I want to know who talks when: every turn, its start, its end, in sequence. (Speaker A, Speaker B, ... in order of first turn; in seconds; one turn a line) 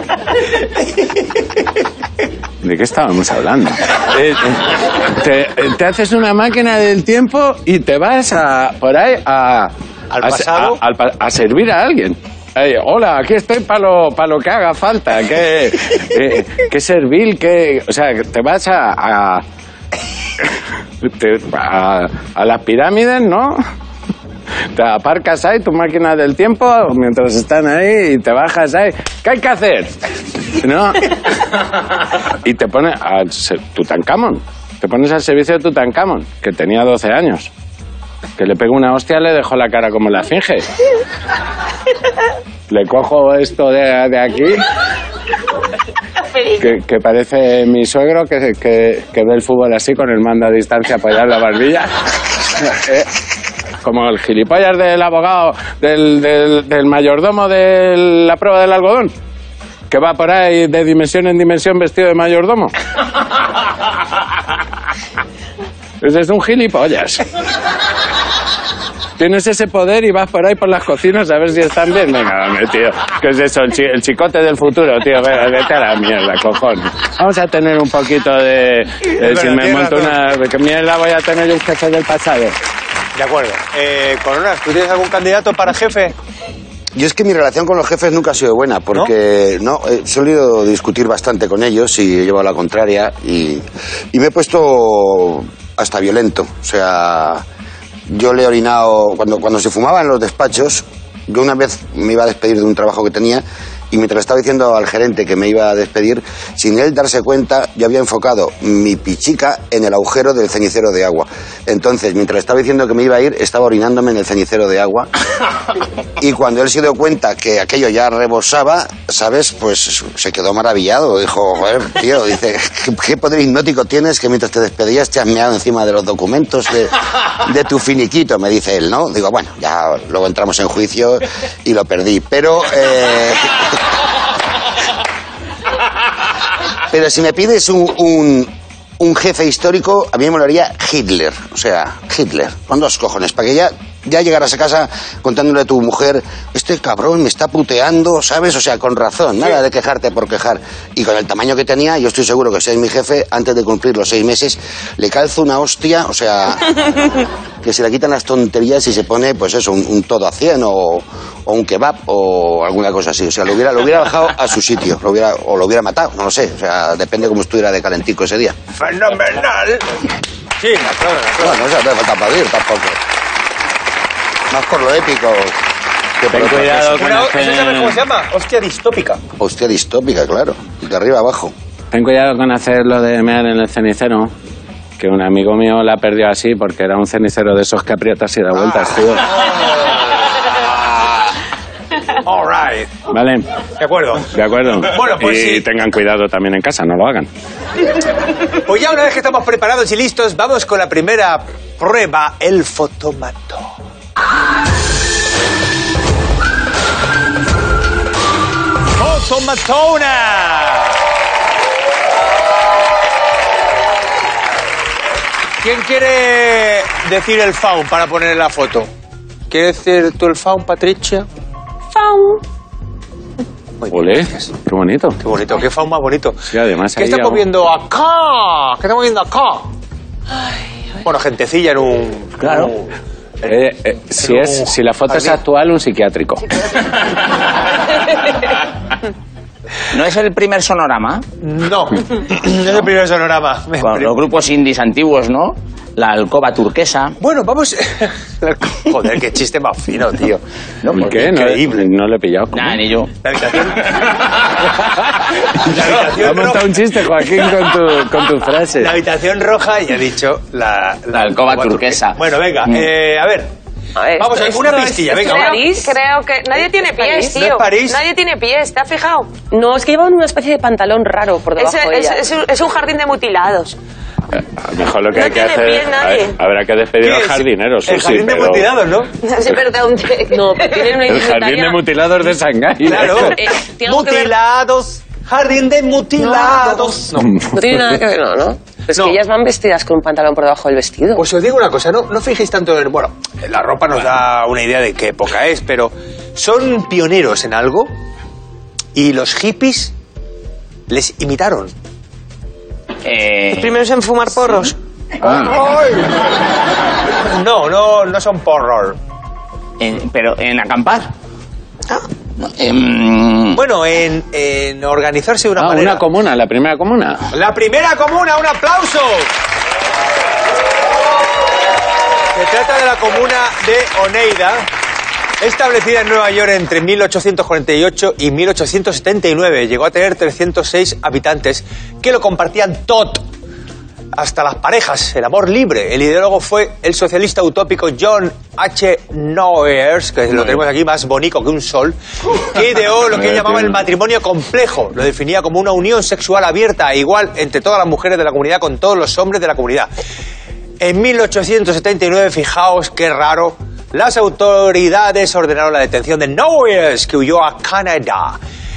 Speaker A: 2.6-19.4
Speaker B: 10.1-10.8
Speaker A: 21.0-23.6
Speaker A: 24.7-30.0
Speaker A: 30.6-31.1
Speaker A: 32.4-37.5
Speaker A: 38.4-40.6
Speaker A: 42.7-44.6
Speaker C: 46.2-46.7
Speaker A: 46.6-51.9
Speaker A: 52.6-53.1
Speaker A: 53.8-59.1
Speaker A: 59.9-62.7
Speaker A: 66.0-67.2
Speaker A: 69.2-82.5
Speaker B: 79.1-80.2
Speaker B: 83.1-86.1
Speaker D: 86.9-97.4
Speaker D: 98.1-115.1
Speaker D: 116.2-133.7
Speaker D: 136.9-168.5
Speaker B: 168.8-171.6
Speaker D: 171.4-173.0
Speaker D: 174.5-175.6
Speaker D: 176.2-177.0
Speaker A: 176.3-178.0
Speaker B: 176.8-179.2
Speaker D: 179.4-181.5
Speaker A: 181.9-184.3
Speaker A: 185.0-189.4
Speaker B: 192.2-192.9
Speaker A: 193.1-193.4
Speaker B: 193.8-195.7
Speaker A: 194.2-197.3
Speaker B: 198.6-203.8
Speaker B: 209.0-211.0
Speaker B: 215.6-218.9
Speaker B: 219.5-221.2
Speaker E: 221.9-222.4
Speaker B: 223.8-224.5
Speaker A: 223.9-225.2
Speaker B: 225.2-229.7
Speaker A: 226.5-227.4
Speaker B: 231.0-232.9
Speaker F: 232.4-232.7
Speaker B: 233.4-235.4
Speaker A: 233.5-236.4
Speaker F: 239.9-241.2
Speaker B: 241.4-244.1
Speaker F: 243.8-247.2
Speaker B: 247.2-251.9
Speaker A: 250.9-252.8
Speaker F: 252.5-253.1
Speaker B: 253.2-254.1
Speaker B: 255.5-256.8
Speaker A: 256.0-259.0
Speaker B: 258.8-263.5
Speaker F: 261.1-262.8
Speaker E: 264.0-265.9
Speaker B: 264.2-265.6
Speaker C: 265.2-269.3
Speaker E: 266.9-267.3
Speaker B: 267.3-268.0
Speaker E: 269.5-272.2
Speaker C: 271.6-273.8
Speaker A: 274.3-278.7
Speaker C: 275.1-276.4
Speaker B: 277.0-279.1
Speaker C: 279.2-281.0
Speaker E: 280.3-281.8
Speaker A: 281.0-283.5
Speaker B: 282.8-287.4
Speaker E: 283.0-284.3
Speaker C: 286.4-286.9
Speaker A: 287.3-287.9
Speaker E: 287.5-291.2
Speaker B: 291.2-297.9
Speaker B: 298.9-299.9
Speaker B: 300.9-301.7
Speaker F: 303.0-303.8
Speaker C: 303.5-304.8
Speaker A: 305.2-305.6
Speaker B: 305.2-306.1
Speaker B: 307.2-309.0
Speaker F: 309.8-311.1
Speaker F: 312.4-313.6
Speaker B: 313.5-316.0
Speaker A: 315.6-317.3
Speaker B: 317.3-319.3
Speaker B: 322.3-324.7
Speaker B: 325.4-333.2
Speaker B: 334.1-349.9
Speaker A: 343.1-343.9
Speaker B: 350.8-358.4